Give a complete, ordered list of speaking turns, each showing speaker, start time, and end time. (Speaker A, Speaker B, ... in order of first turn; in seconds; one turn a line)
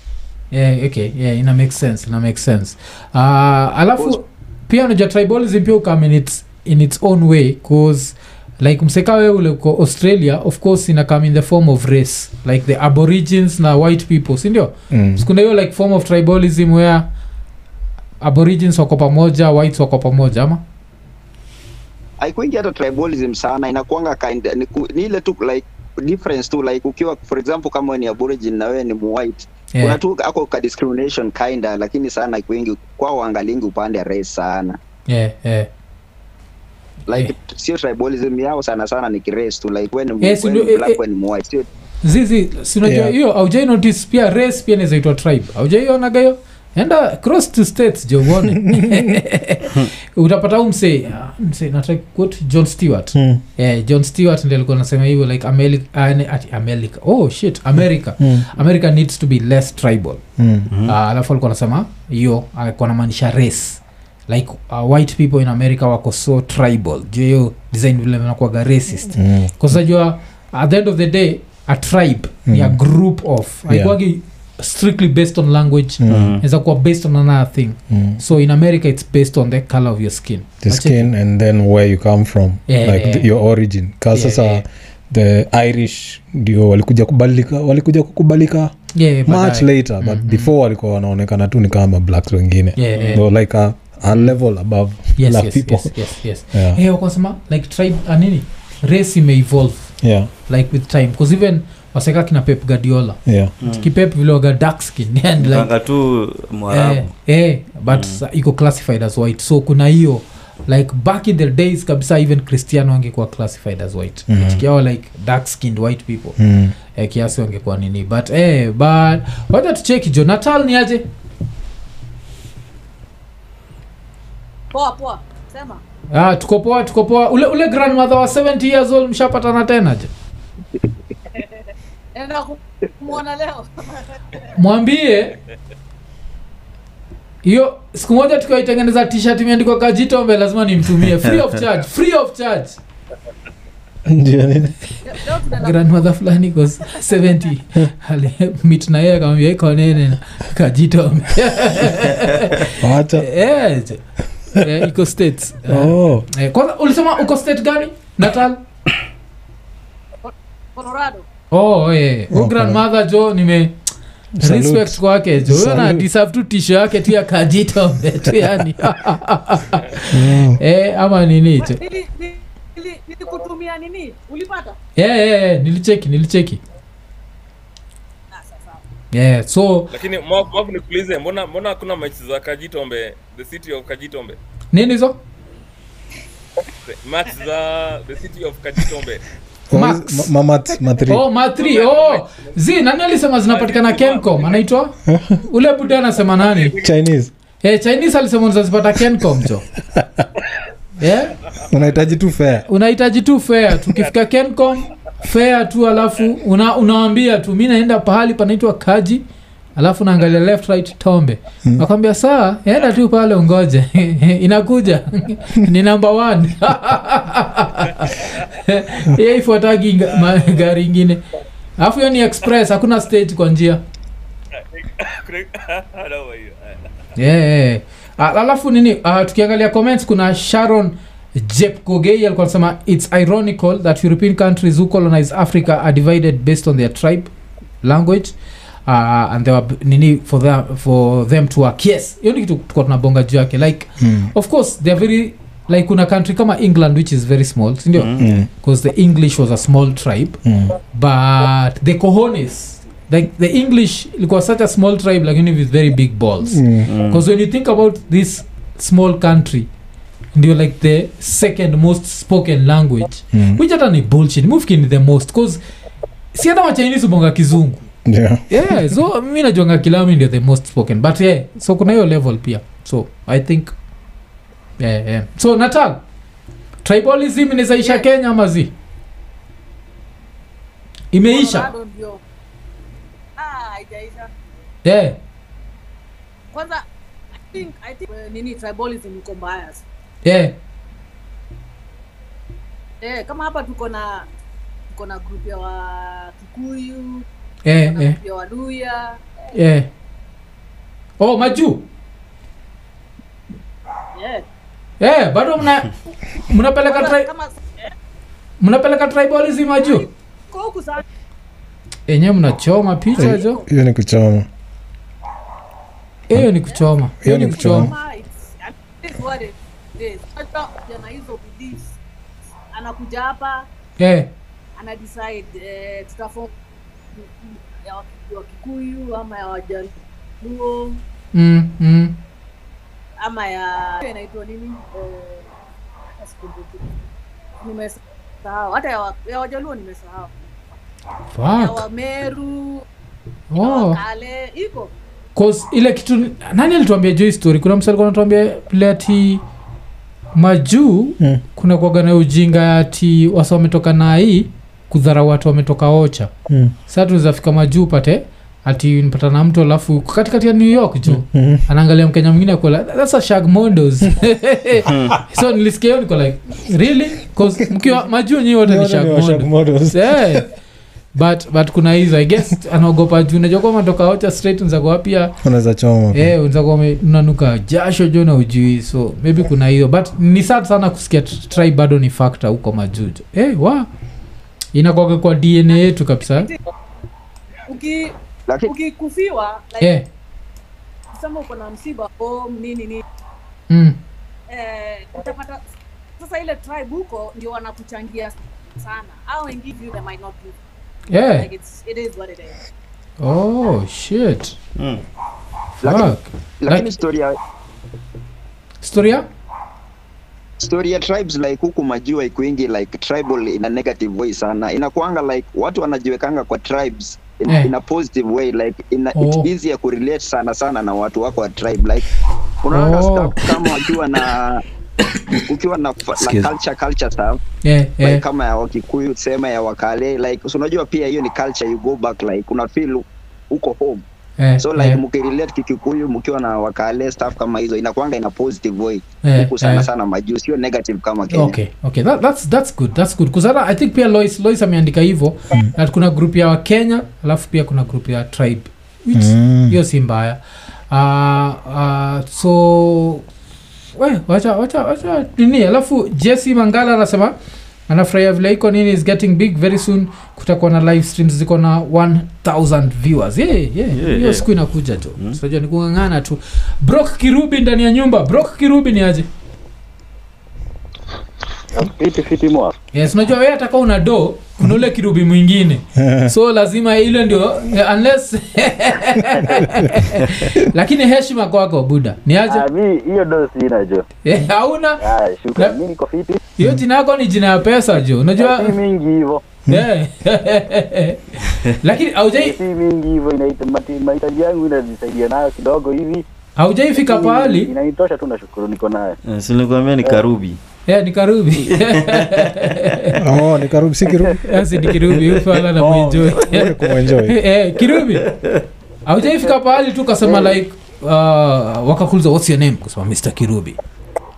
Speaker A: 0.5-17.1
Speaker B: 14.9-15.2
Speaker A: 18.2-20.6
Speaker C: 22.2-34.8
Speaker A: 35.1-35.7
Speaker C: 37.1-41.7
Speaker A: 40.2-41.0
Speaker A: 42.0-60.2
Speaker B: 42.8-43.1
Speaker B: 48.4-49.1
Speaker B: 53.1-53.4
Speaker B: 58.2-58.5
Speaker B: 60.4-60.7
Speaker D: 60.7-61.0
Speaker A: 60.8-81.1
Speaker B: 69.1-69.5
Speaker B: 72.5-72.8
Speaker B: 73.7-74.0
Speaker B: 76.0-76.3
Speaker D: 76.1-76.4
Speaker B: 77.9-78.2
Speaker B: 80.6-88.7
Speaker A: 82.7-83.3
Speaker A: 84.1-84.6
Speaker A: 88.9-90.5
Speaker B: 89.2-96.8
Speaker A: 92.8-93.2
Speaker A: 95.2-99.9
Speaker B: 100.0-100.3
Speaker A: 100.5-105.7
Speaker B: 103.2-103.5
Speaker D: 103.6-103.9
Speaker D: 105.4-107.1
Speaker A: 106.7-116.4
Speaker D: 107.9-108.2
Speaker B: 114.3-114.6
Speaker B: 116.4-116.7
Speaker A: 116.9-121.1
Speaker E: 124.7-125.8
Speaker A: 126.1-130.1
Speaker E: 131.3-134.1
Speaker A: 134.6-135.4
Speaker A: 137.4-142.8
Speaker B: 144.1-144.8
Speaker E: 145.0-146.0
Speaker A: 145.6-154.0
Speaker B: 152.8-153.3
Speaker A: 154.5-158.6
Speaker B: 155.7-156.3
Speaker E: 160.2-161.3
Speaker A: 161.5-163.8
Speaker B: 162.3-162.8
Speaker B: 164.4-166.1
Speaker A: 164.4-171.8
Speaker B: 168.4-168.7
Speaker B: 170.1-170.6
Speaker E: 171.6-174.8
Speaker A: 175.0-176.6
Speaker E: 178.3-178.8
Speaker A: 179.1-179.9
Speaker F: 179.9-184.4
Speaker A: 184.7-185.2
Speaker F: 186.8-189.2
Speaker B: 189.7-191.2
Speaker A: 189.7-190.3
Speaker A: 191.1-196.8
Speaker F: 191.6-192.5
Speaker F: 193.5-194.6
Speaker B: 195.1-195.4
Speaker F: 196.4-196.9
Speaker B: 196.8-197.3
Speaker A: 197.6-199.7
Speaker B: 199.9-200.2
Speaker A: 201.0-201.4
Speaker B: 201.6-202.7
Speaker A: 202.7-209.2
Speaker A: 209.8-221.2
Speaker F: 220.2-220.6
Speaker A: 221.8-223.8
Speaker F: 224.6-226.8
Speaker A: 227.2-237.3
Speaker A: 237.8-238.3
Speaker A: 238.9-250.4
Speaker B: 244.0-244.3
Speaker D: 247.9-248.4
Speaker B: 248.2-248.5
Speaker B: 250.4-250.8
Speaker A: 250.9-259.7
Speaker B: 256.4-256.9
Speaker D: 256.9-257.2
Speaker A: 260.3-265.6
Speaker B: 263.3-263.6
Speaker A: 266.3-267.8
Speaker B: 268.0-268.9
Speaker A: 268.5-273.7
Speaker A: 274.8-276.0
Speaker A: 276.8-278.7
Speaker E: 277.8-278.1
Speaker A: 281.1-281.7
Speaker E: 281.2-282.2
Speaker E: 283.4-284.3
Speaker A: 284.8-285.2
Speaker E: 286.5-286.8
Speaker E: 287.5-289.8
Speaker A: 290.2-290.6
Speaker E: 293.0-294.3
Speaker E: 294.9-297.2
Speaker A: 297.6-298.2
Speaker E: 297.8-299.2
Speaker A: 299.5-299.9
Speaker A: 301.2-301.9
Speaker E: 304.1-304.4
Speaker A: 305.0-305.9
Speaker A: 306.5-307.3
Speaker E: 306.8-307.9
Speaker A: 308.6-310.1
Speaker E: 309.8-311.0
Speaker A: 312.1-313.6
Speaker E: 313.1-313.6
Speaker B: 313.2-314.5
Speaker A: 316.3-317.9
Speaker E: 316.7-322.0
Speaker B: 317.2-317.9
Speaker E: 322.7-323.6
Speaker A: 324.0-324.3
Speaker E: 324.8-326.5
Speaker E: 327.1-331.0
Speaker A: 331.3-332.1
Speaker E: 333.2-335.5
Speaker E: 336.2-336.9
Speaker E: 337.6-340.3
Speaker A: 341.3-341.8
Speaker E: 341.5-342.9
Speaker A: 343.5-344.0
Speaker E: 343.6-344.9
Speaker A: 345.4-349.4
Speaker A: 350.4-356.3
Speaker B: 356.5-356.7
Speaker A: 356.9-370.5
Speaker B: 361.1-361.6
Speaker D: 364.9-365.2
Speaker B: 367.4-368.1
Speaker B: 368.6-370.4
Speaker A: 371.1-375.4
Speaker B: 375.4-376.3
Speaker A: 376.1-383.9
Speaker A: 384.7-386.5
Speaker E: 387.7-390.0
Speaker E: 391.1-393.0
Speaker A: 393.7-394.0
Speaker E: 394.5-395.7
Speaker E: 396.2-400.6
Speaker A: 401.1-401.5
Speaker E: 401.2-402.6
Speaker A: 403.2-404.6
Speaker D: 404.8-405.0
Speaker A: 405.8-406.9
Speaker C: 405.8-407.4
Speaker A: 408.8-409.2
Speaker C: 410.6-422.1
Speaker A: 419.1-419.5
Speaker C: 422.6-424.6
Speaker A: 422.7-423.5
Speaker C: 425.4-427.4
Speaker A: 427.6-428.2
Speaker C: 428.0-434.0
Speaker A: 434.4-435.0
Speaker C: 434.6-441.5
Speaker A: 439.2-439.9
Speaker A: 441.3-450.4
Speaker B: 449.1-449.8
Speaker A: 450.9-453.2
Speaker A: 453.9-457.4
Speaker A: 457.9-469.3
Speaker D: 463.9-464.5
Speaker G: 471.7-472.8
Speaker A: 472.9-482.6
Speaker B: 476.0-476.3
Speaker G: 482.4-484.1
Speaker A: 484.2-485.0
Speaker G: 485.0-486.4
Speaker A: 486.6-488.8
Speaker G: 488.4-489.4
Speaker A: 489.7-492.6
Speaker G: 492.3-496.2
Speaker A: 496.6-497.7
Speaker G: 497.0-499.2
Speaker D: 499.2-500.6
Speaker A: 500.9-503.2
Speaker D: 501.7-503.1
Speaker B: 503.2-504.4
Speaker A: 504.4-508.3
Speaker B: 505.7-507.4
Speaker D: 507.9-508.6
Speaker A: 509.1-513.8
Speaker G: 510.2-510.6